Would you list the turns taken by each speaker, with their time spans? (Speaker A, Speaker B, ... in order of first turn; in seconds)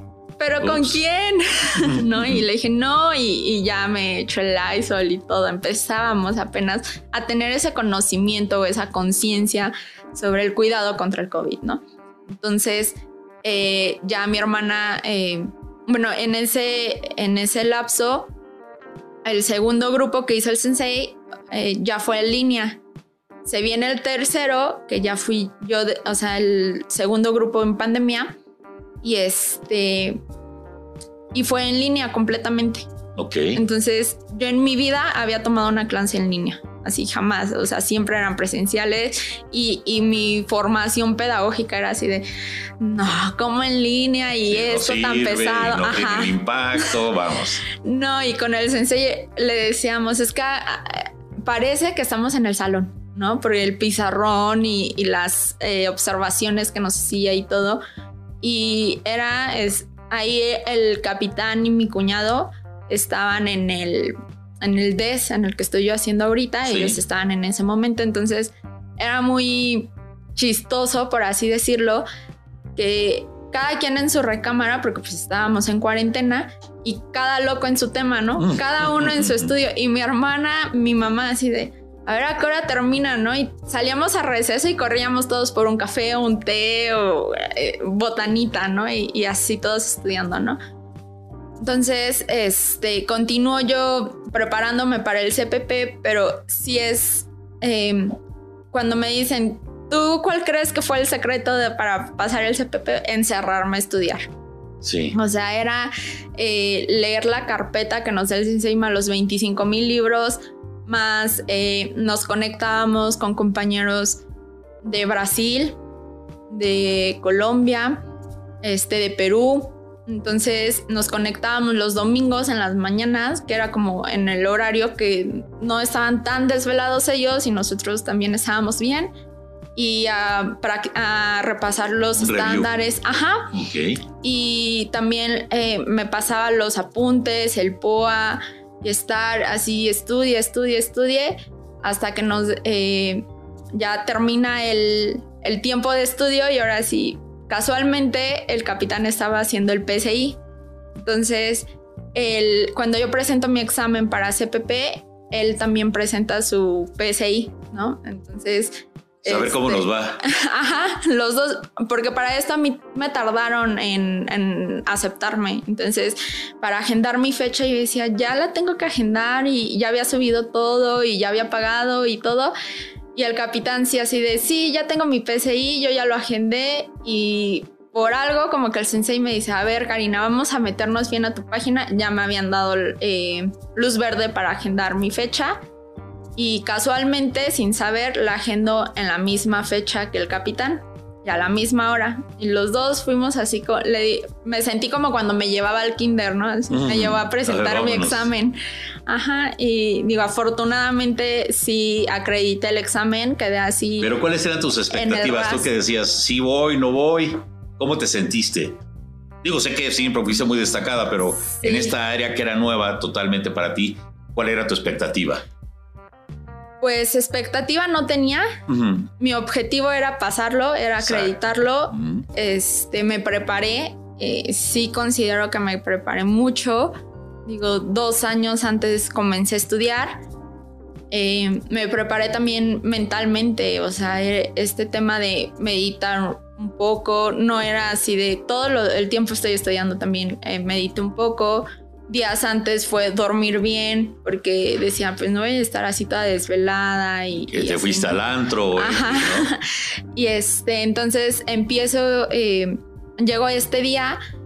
Speaker A: 0.4-18.3, 19.2-22.8, 23.4-28.4, 29.0-30.2, 31.3-32.9, 33.5-42.3, 42.8-46.9, 47.8-57.8, 58.4-72.1, 72.8-90.6, 91.6-98.2, 98.7-104.3, 105.1-114.2, 114.8-115.8, 116.5-118.0, 118.6-129.1, 129.8-133.5, 134.2-150.4, 151.0-172.6, 173.2-185.6, 186.4-204.1, 204.9-205.7, 211.4-211.9, 216.8-218.6, 219.2-230.2, 231.1-248.2, 248.8-249.6, 250.1-254.2
Speaker B: 0.6-1.0, 1.8-2.4, 33.2-33.6, 44.5-47.6, 66.7-67.0, 78.4-79.5, 104.8-105.2, 132.2-132.7, 133.5-134.0, 159.2-160.2, 196.7-198.3, 204.0-208.8, 209.4-215.4, 218.7-219.1, 221.0-221.3, 221.9-222.2, 247.4-249.5